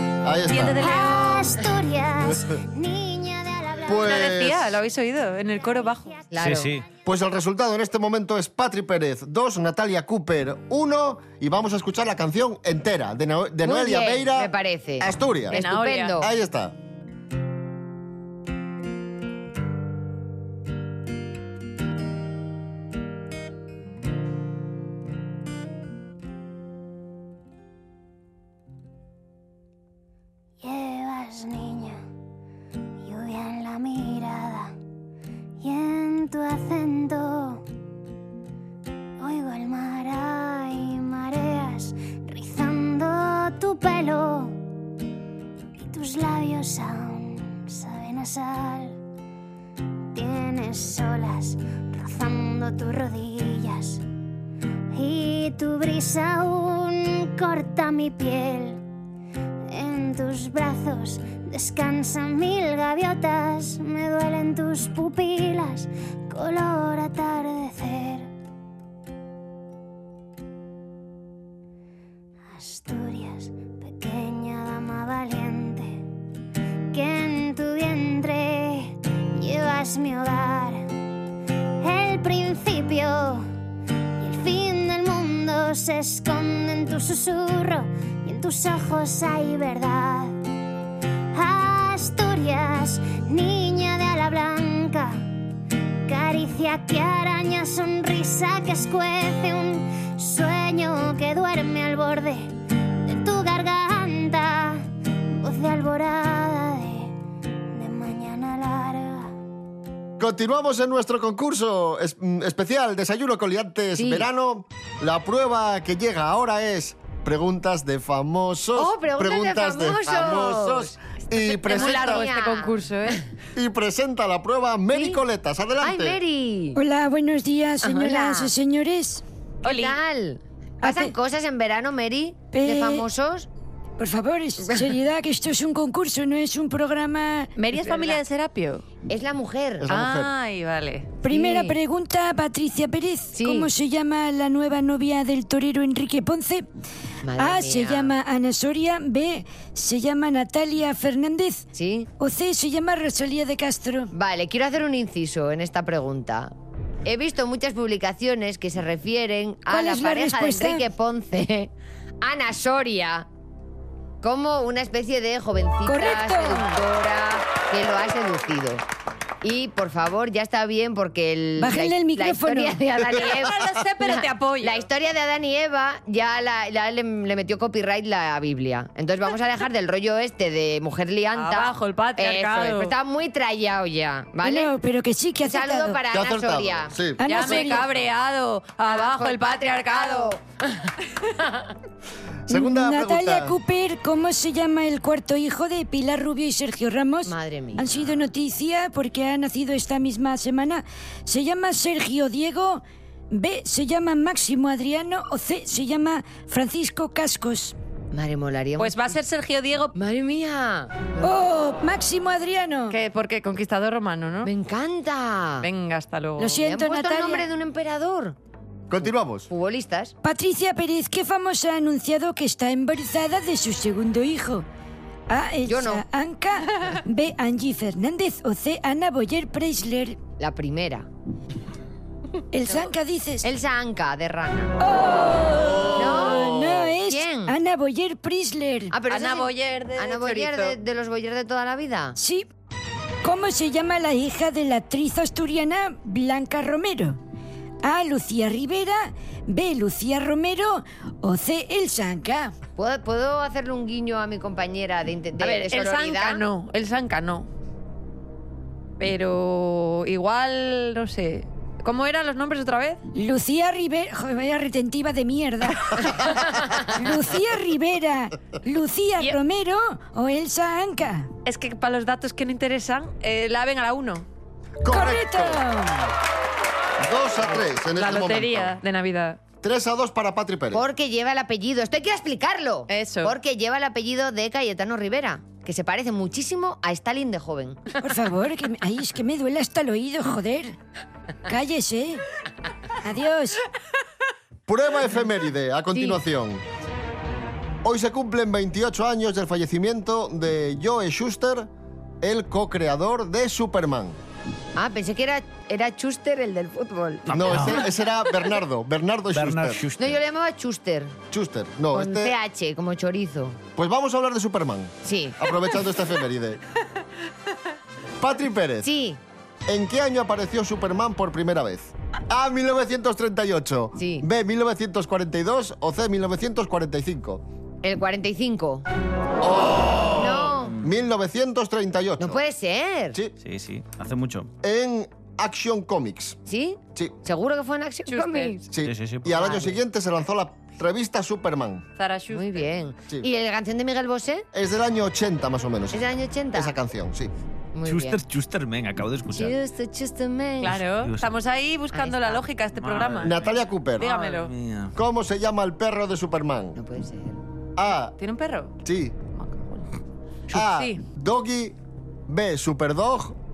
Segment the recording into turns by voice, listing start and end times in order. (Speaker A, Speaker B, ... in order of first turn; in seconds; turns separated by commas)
Speaker A: 0.2-0.8, Speaker B: 0.5-1.6, Speaker C: 0.8-4.5, Speaker A: 3.9-4.8, Speaker B: 4.0-6.3, Speaker C: 5.6-6.3, Speaker D: 6.3-6.7, Speaker E: 6.4-6.8, Speaker A: 7.1-15.6, Speaker D: 13.6-16.3, Speaker B: 15.5-16.2, Speaker A: 16.2-16.7, Speaker C: 30.6-32.0, Speaker C: 33.0-34.7, Speaker C: 35.6-37.6, Speaker C: 39.2-44.6, Speaker C: 45.8-49.0, Speaker C: 50.1-54.0, Speaker C: 54.9-58.8, Speaker C: 59.7-68.3, Speaker C: 72.5-75.9, Speaker C: 76.9-80.8, Speaker C: 81.8-83.5, Speaker C: 84.2-90.4, Speaker C: 91.3-95.2, Speaker C: 96.1-102.5, Speaker C: 103.1-104.8, Speaker C: 105.4-107.1, Speaker C: 107.7-109.3, Speaker A: 110.2-122.3, Speaker D: 114.0-114.3, Speaker D: 118.8-120.9, Speaker D: 121.5-122.8, Speaker B: 121.5-123.2, Speaker A: 123.5-126.2, Speaker D: 124.9-125.2, Speaker D: 125.8-126.8, Speaker F: 126.8-129.2, Speaker D: 127.8-128.5, Speaker B: 129.6-130.0, Speaker D: 129.6-133.5, Speaker F: 130.8-131.1, Speaker F: 132.5-133.1, Speaker F: 134.0-137.5, Speaker B: 137.6-138.8, Speaker D: 137.8-138.2, Speaker D: 139.1-139.9, Speaker A: 139.8-140.3, Speaker B: 139.9-141.7, Speaker F: 141.2-146.7, Speaker D: 143.3-143.7, Speaker D: 147.2-148.1, Speaker F: 147.4-151.7, Speaker D: 151.8-152.1, Speaker F: 152.2-154.1, Speaker D: 154.1-156.5, Speaker D: 157.1-161.7, Speaker F: 159.7-160.8, Speaker D: 162.2-163.3, Speaker D: 164.2-168.8, Speaker F: 165.9-166.7, Speaker D: 169.4-184.7, Speaker F: 171.6-172.8, Speaker B: 173.1-174.8, Speaker B: 181.3-182.9, Speaker F: 184.4-186.0, Speaker D: 185.4-187.9, Speaker A: 186.1-187.2, Speaker F: 187.2-187.9, Speaker B: 187.2-190.3, Speaker D: 188.9-190.9, Speaker A: 192.5-193.6, Speaker F: 192.5-207.8, Speaker D: 197.3-197.9, Speaker D: 208.1-209.2, Speaker B: 208.8-209.9, Speaker D: 209.9-211.3, Speaker F: 211.2-213.0, Speaker B: 212.9-214.5, Speaker D: 214.4-215.7, Speaker B: 215.6-216.6, Speaker F: 216.4-217.5, Speaker D: 216.6-218.4, Speaker A: 218.9-219.5, Speaker D: 219.5-220.1, Speaker F: 220.2-224.7, Speaker F: 225.3-230.2, Speaker D: 225.7-226.0, Speaker D: 230.4-231.1, Speaker F: 232.5-233.5, Speaker D: 233.4-234.7, Speaker F: 234.8-238.9, Speaker D: 235.9-237.6, Speaker D: 238.9-242.2, Speaker B: 239.1-240.8, Speaker F: 242.2-242.5, Speaker F: 243.2-247.2, Speaker F: 247.8-252.5, Speaker D: 252.8-256.4, Speaker B: 255.4-257.5, Speaker B: 259.0-263.0, Speaker F: 263.1-266.2, Speaker F: 266.8-271.3, Speaker B: 271.5-274.3, Speaker A: 274.8-275.6, Speaker F: 274.9-276.1, Speaker A: 277.0-278.8, Speaker B: 277.9-279.4, Speaker A: 279.6-280.8, Speaker D: 280.7-287.8, Speaker B: 282.9-283.4, Speaker F: 288.0-290.8, Speaker F: 291.5-292.2, Speaker F: 293.0-293.6, Speaker A: 294.7-296.6, Speaker D: 295.9-296.2, Speaker A: 297.8-301.7, Speaker A: 302.2-304.2, Speaker D: 304.8-307.8, Speaker E: 307.3-307.8, Speaker A: 307.3-309.8, Speaker E: 309.3-310.2, Speaker D: 310.0-311.2, Speaker A: 311.3-312.4, Speaker D: 311.9-313.6, Speaker A: 313.8-316.6, Speaker D: 315.1-315.5, Speaker A: 318.2-318.9, Speaker D: 318.8-319.2, Speaker A: 319.7-327.4, Speaker D: 324.0-324.3, Speaker D: 327.8-328.9, Speaker A: 329.4-332.4, Speaker D: 330.1-330.8, Speaker D: 332.2-333.2, Speaker E: 333.4-334.5, Speaker A: 334.6-336.4, Speaker D: 336.5-338.6, Speaker B: 338.1-338.6, Speaker A: 338.7-341.9, Speaker E: 338.8-339.4, Speaker D: 339.3-339.8, Speaker B: 342.0-342.7, Speaker D: 342.3-344.5, Speaker A: 344.5-347.3, Speaker D: 345.9-346.8, Speaker D: 347.7-348.2, Speaker E: 347.9-349.6, Speaker D: 349.3-350.9, Speaker E: 350.6-351.3, Speaker B: 350.6-353.3, Speaker D: 351.9-352.4, Speaker E: 352.8-354.9, Speaker A: 353.2-354.1, Speaker B: 354.0-354.5, Speaker A: 355.0-356.8, Speaker D: 356.8-357.4, Speaker A: 357.8-358.2, Speaker B: 358.2-358.7, Speaker A: 358.8-359.2, Speaker B: 359.3-360.0, Speaker B: 360.5-361.0, Speaker A: 360.5-361.8, Speaker A: 362.3-363.4